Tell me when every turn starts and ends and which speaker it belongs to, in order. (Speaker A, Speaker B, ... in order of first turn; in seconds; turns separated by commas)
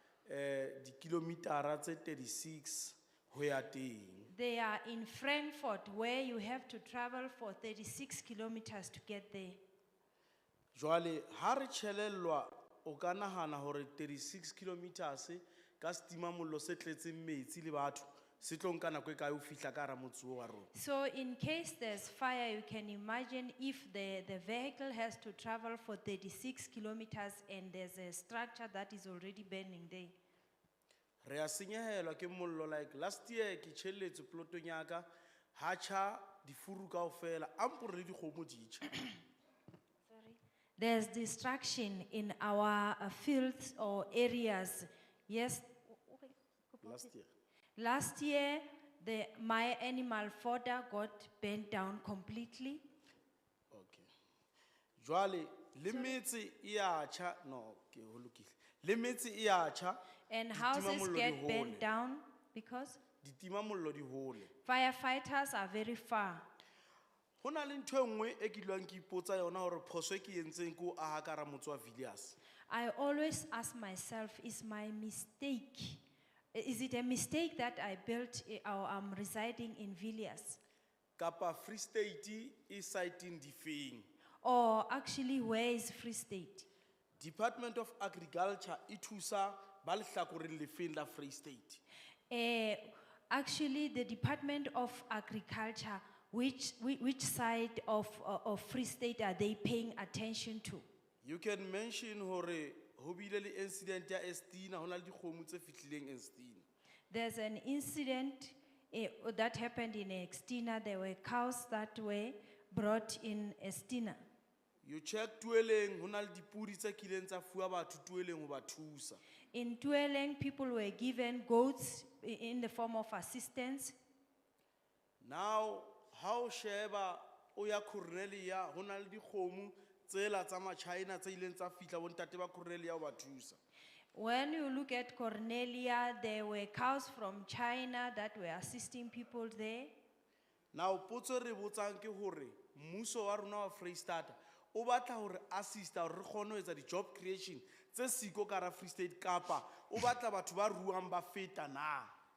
Speaker A: 0.2-4.3, Speaker B: 4.3-9.6, Speaker A: 10.7-20.7, Speaker B: 20.7-30.1, Speaker A: 31.2-38.9, Speaker B: 40.0-47.1, Speaker A: 46.8-47.3, Speaker B: 47.8-52.8, Speaker A: 53.7-54.1, Speaker A: 55.0-60.0, Speaker B: 55.9-56.2, Speaker B: 60.3-63.0, Speaker A: 60.5-61.9, Speaker A: 63.2-64.5, Speaker B: 64.6-66.5, Speaker A: 67.4-72.4, Speaker B: 72.7-76.0, Speaker B: 76.5-80.6, Speaker A: 81.2-84.1, Speaker B: 84.4-86.7, Speaker A: 87.2-91.8, Speaker B: 92.3-100.8, Speaker A: 101.2-106.6, Speaker B: 107.1-114.2, Speaker A: 114.8-119.2, Speaker B: 119.5-124.0, Speaker A: 125.2-133.6, Speaker B: 134.1-139.9, Speaker A: 140.7-152.1